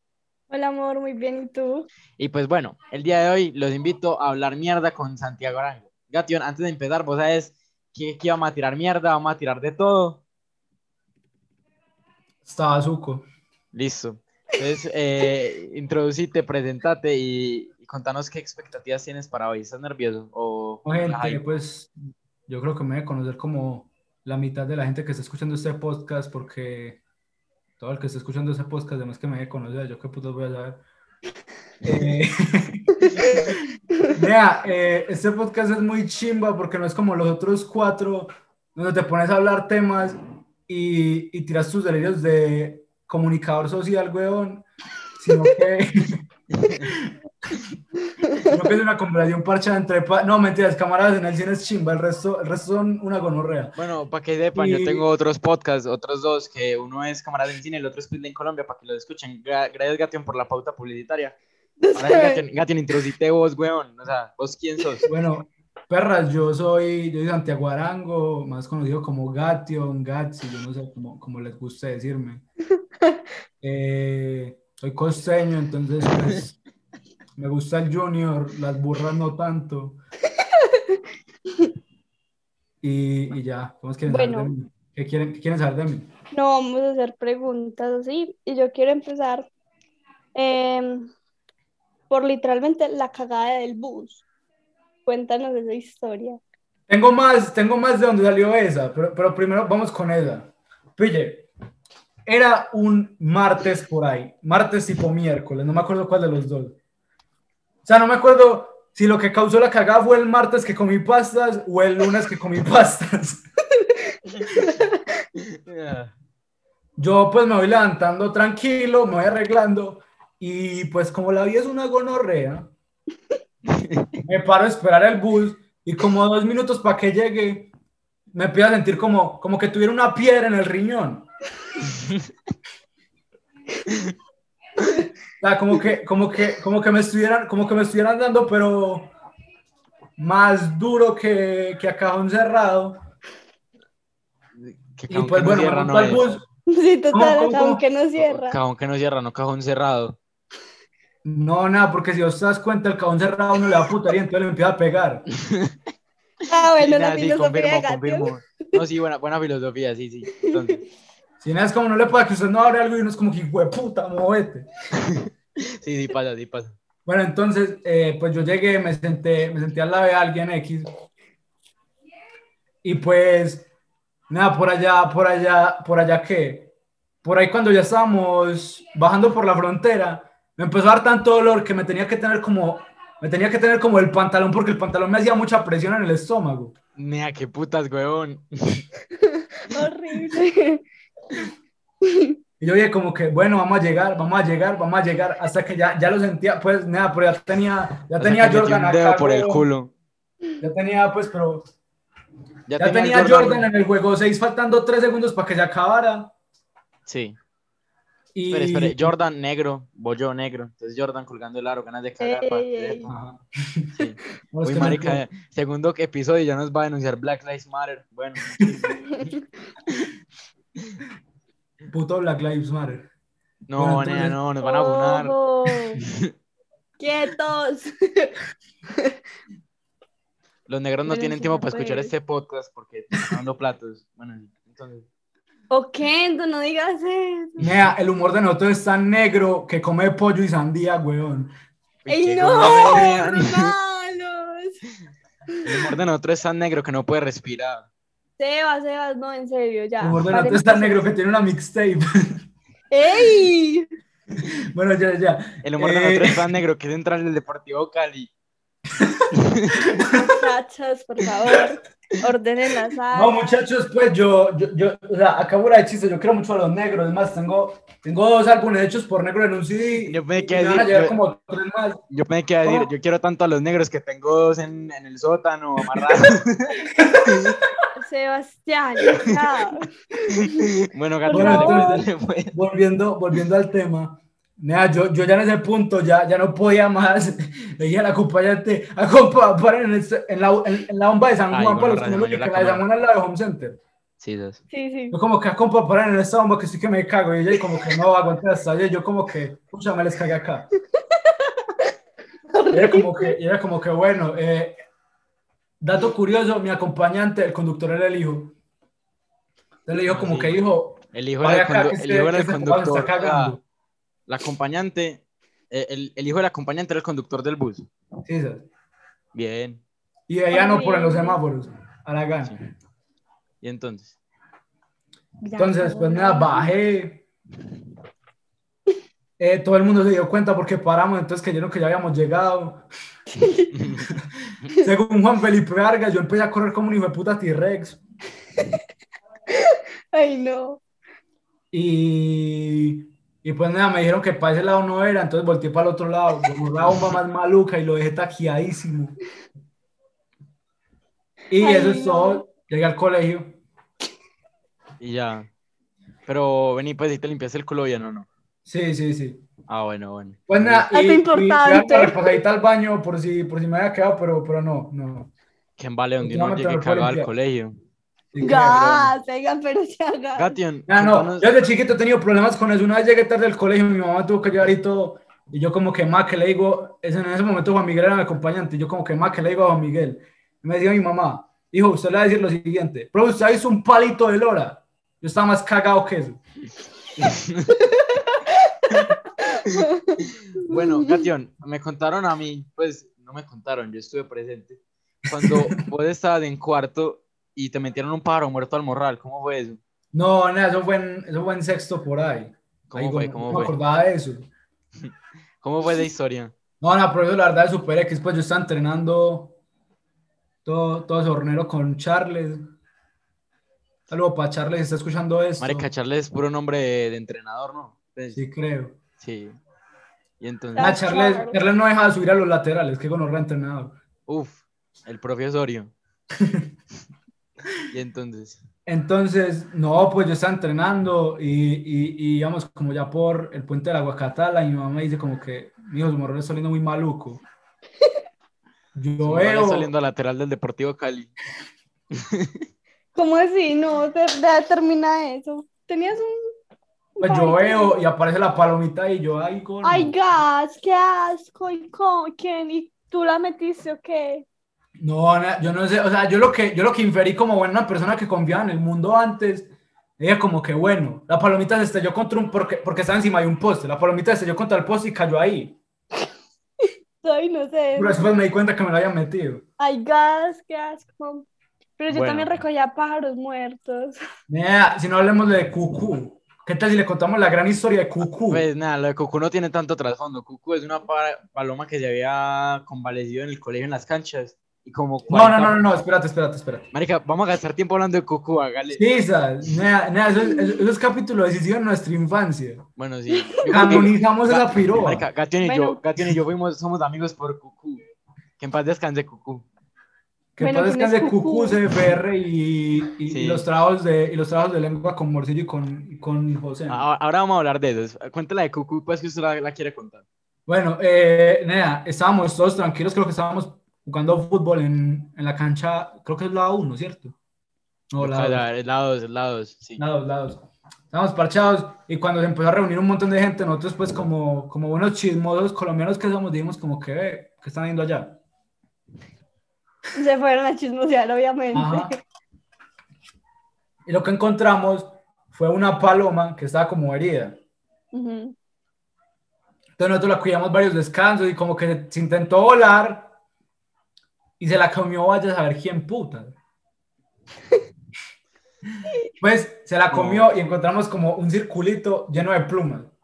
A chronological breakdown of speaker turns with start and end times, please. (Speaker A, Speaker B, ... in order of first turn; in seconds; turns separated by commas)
Speaker A: 0.5-1.9, Speaker B: 2.2-10.2, Speaker C: 12.4-13.2, Speaker B: 13.7-21.4, Speaker C: 20.9-21.9, Speaker C: 22.5-27.0, Speaker C: 27.8-30.8, Speaker C: 31.8-33.5, Speaker A: 33.0-33.4, Speaker C: 34.1-44.7, Speaker C: 45.2-46.2, Speaker B: 46.5-46.9, Speaker C: 46.9-47.6, Speaker A: 48.2-48.6, Speaker C: 48.4-53.8, Speaker B: 53.8-61.4, Speaker C: 54.5-55.0, Speaker A: 61.8-62.4, Speaker B: 61.9-65.1, Speaker C: 65.1-72.4, Speaker C: 73.6-76.6, Speaker C: 77.4-80.0, Speaker A: 80.4-81.0, Speaker C: 82.8-86.1, Speaker A: 84.1-84.5, Speaker A: 86.3-89.5, Speaker A: 90.3-91.1, Speaker A: 92.1-94.2, Speaker A: 95.1-96.4, Speaker C: 96.9-101.5, Speaker C: 102.3-106.8, Speaker C: 107.8-113.4, Speaker A: 113.8-115.0, Speaker B: 115.4-116.2, Speaker C: 117.0-122.7, Speaker B: 123.7-124.2, Speaker C: 124.2-127.7, Speaker C: 128.3-131.3, Speaker B: 131.8-132.3, Speaker B: 133.9-134.1, Speaker C: 135.4-139.1, Speaker C: 140.2-143.0, Speaker B: 144.6-146.4, Speaker C: 145.1-146.4, Speaker A: 146.7-148.6, Speaker C: 147.1-147.8, Speaker B: 148.2-150.2, Speaker C: 151.2-155.2, Speaker B: 155.4-155.8, Speaker A: 156.5-158.8, Speaker B: 156.6-160.8, Speaker C: 161.4-164.7, Speaker B: 165.0-166.8, Speaker C: 167.1-170.9, Speaker C: 172.8-173.7, Speaker C: 174.3-176.7, Speaker C: 177.2-186.7, Speaker B: 187.0-188.9, Speaker A: 189.2-190.8, Speaker A: 192.0-192.4, Speaker C: 192.6-199.7, Speaker B: 198.2-199.9, Speaker C: 200.6-201.7, Speaker B: 202.7-203.7, Speaker C: 202.8-206.3, Speaker B: 207.1-207.4, Speaker C: 208.3-209.1, Speaker B: 208.5-213.1, Speaker A: 212.2-213.1, Speaker C: 213.1-213.9, Speaker B: 214.0-219.0, Speaker C: 214.5-215.2, Speaker A: 219.1-219.5, Speaker C: 221.9-223.1, Speaker B: 223.7-225.3, Speaker C: 223.8-224.4, Speaker A: 224.6-226.0, Speaker B: 226.1-226.3, Speaker A: 227.0-228.3, Speaker B: 230.7-235.1, Speaker A: 231.1-232.1, Speaker A: 235.7-237.6, Speaker B: 237.6-237.9, Speaker C: 237.6-241.5, Speaker B: 242.1-243.7, Speaker A: 242.1-244.8, Speaker A: 245.6-245.9, Speaker B: 245.6-247.9, Speaker A: 248.4-251.1, Speaker C: 250.0-252.4, Speaker A: 252.9-253.9, Speaker C: 254.4-256.4, Speaker B: 255.6-258.3, Speaker C: 259.0-260.4, Speaker B: 259.3-259.8, Speaker A: 260.2-263.6, Speaker C: 263.1-272.0, Speaker B: 270.1-271.2, Speaker B: 272.1-277.6, Speaker C: 277.0-277.6, Speaker A: 277.9-280.6, Speaker B: 280.3-282.6, Speaker A: 281.3-282.1, Speaker C: 281.3-293.8, Speaker B: 291.5-292.8, Speaker B: 294.2-294.6, Speaker A: 294.7-295.2, Speaker C: 295.1-300.7, Speaker A: 301.3-301.9, Speaker A: 302.5-303.4, Speaker C: 302.7-304.8, Speaker C: 305.8-308.6, Speaker C: 309.9-313.6, Speaker B: 310.1-310.6, Speaker B: 311.1-313.6, Speaker B: 314.3-317.9, Speaker C: 318.2-318.7, Speaker B: 319.3-319.8, Speaker C: 320.3-322.6, Speaker A: 320.5-321.4, Speaker B: 323.6-324.2, Speaker A: 325.4-326.7, Speaker C: 325.6-327.2, Speaker C: 329.4-332.8, Speaker A: 333.3-333.7, Speaker B: 333.7-334.1, Speaker C: 334.8-338.0, Speaker A: 339.5-340.8, Speaker C: 341.7-349.2, Speaker B: 346.8-347.1, Speaker C: 351.5-353.6, Speaker A: 351.6-352.4, Speaker B: 355.0-355.5, Speaker B: 356.3-358.3, Speaker C: 358.7-359.4, Speaker B: 359.7-360.9, Speaker C: 360.5-365.3, Speaker A: 360.9-362.4, Speaker B: 365.8-367.8, Speaker C: 366.2-367.3, Speaker C: 368.3-369.1, Speaker A: 368.4-370.6, Speaker B: 370.4-371.5, Speaker C: 370.9-386.4, Speaker B: 387.2-387.8, Speaker A: 387.9-391.3, Speaker B: 389.6-399.8, Speaker C: 395.4-395.8, Speaker C: 400.1-404.5, Speaker B: 402.9-403.8, Speaker B: 405.0-406.6, Speaker C: 406.8-409.6, Speaker C: 410.6-412.7, Speaker C: 414.1-415.9, Speaker B: 415.6-418.4, Speaker C: 418.4-419.0, Speaker B: 419.2-419.6, Speaker B: 420.4-420.9, Speaker A: 420.8-421.6, Speaker C: 420.8-424.0, Speaker B: 424.3-425.9, Speaker C: 426.4-426.7, Speaker B: 427.9-428.6, Speaker C: 428.9-437.4, Speaker C: 438.9-439.9, Speaker B: 439.2-441.3, Speaker B: 442.1-442.6, Speaker A: 443.1-446.4, Speaker A: 447.2-447.9, Speaker C: 447.2-450.1, Speaker A: 449.8-454.5, Speaker C: 455.0-465.8, Speaker A: 466.8-468.2, Speaker C: 467.9-469.6, Speaker A: 469.8-471.5, Speaker A: 472.0-474.2, Speaker B: 472.1-472.5, Speaker C: 474.5-478.6, Speaker B: 478.5-485.8, Speaker C: 485.3-486.9, Speaker B: 486.9-489.0, Speaker C: 488.9-492.9, Speaker B: 493.0-498.0, Speaker A: 493.6-494.0, Speaker C: 493.7-495.2, Speaker A: 495.6-496.0, Speaker B: 498.6-499.7, Speaker C: 500.6-507.0, Speaker A: 500.6-501.8, Speaker B: 503.3-503.7, Speaker B: 506.9-510.2, Speaker C: 510.7-517.4, Speaker C: 518.1-518.6, Speaker B: 518.2-520.0, Speaker C: 520.0-528.4, Speaker A: 530.1-532.1, Speaker C: 531.7-532.1, Speaker C: 534.1-537.6, Speaker A: 538.1-538.5, Speaker C: 540.0-543.3, Speaker C: 544.6-546.6, Speaker C: 549.4-553.1, Speaker B: 550.1-550.5